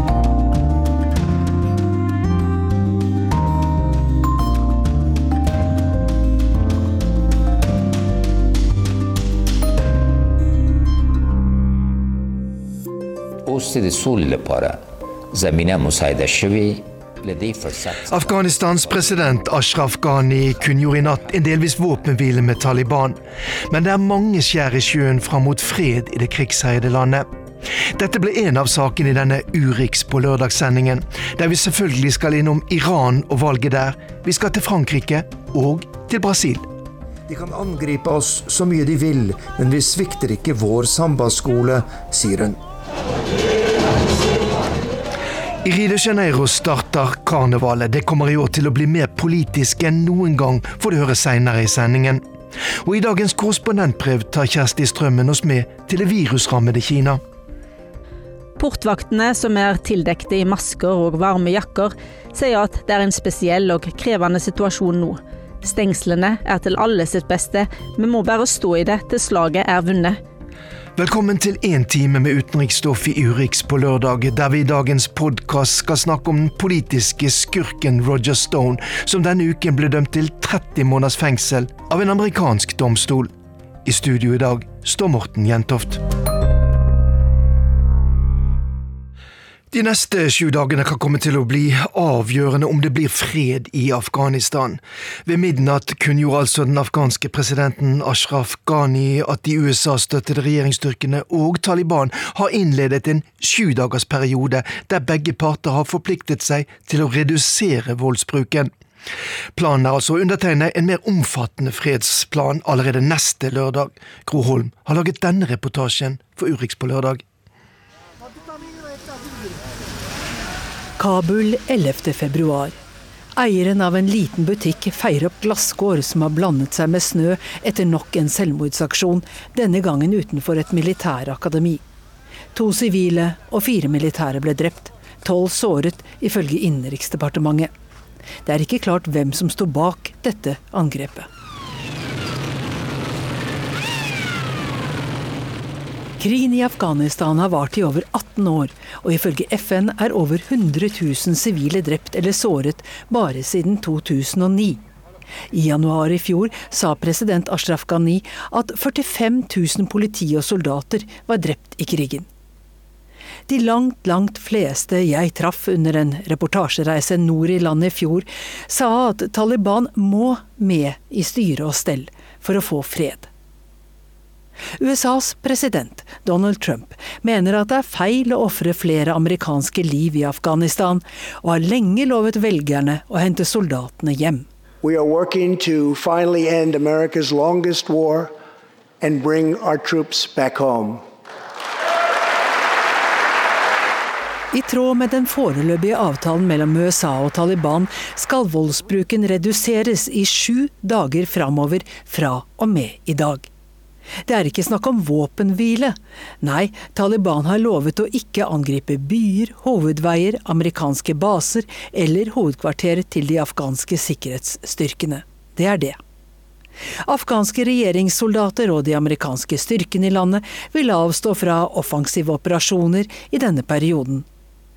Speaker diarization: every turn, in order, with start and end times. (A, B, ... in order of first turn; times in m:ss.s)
0:13.4-0:18.3 A
0:18.1-0:23.2 B
0:23.7-0:27.3 B
0:27.9-0:36.6 B
0:37.3-0:42.6 C
0:45.6-0:52.2 B
0:52.8-0:57.2 B
0:58.6-1:10.2 D
1:11.0-1:23.3 B
1:23.8-1:26.0 B
1:29.7-1:48.7 B
1:49.5-1:57.2 B
2:01.0-2:02.7 E
2:03.4-2:11.8 E
2:12.5-2:17.7 E
2:18.4-2:21.3 E
2:26.2-2:34.8 E
2:35.5-2:42.3 E
2:43.5-2:53.3 E
2:54.8-3:04.4 E
3:04.8-3:08.3 F
3:09.0-3:11.0 F
3:14.5-3:23.5 E
3:24.2-3:36.0 E
3:37.0-3:44.2 E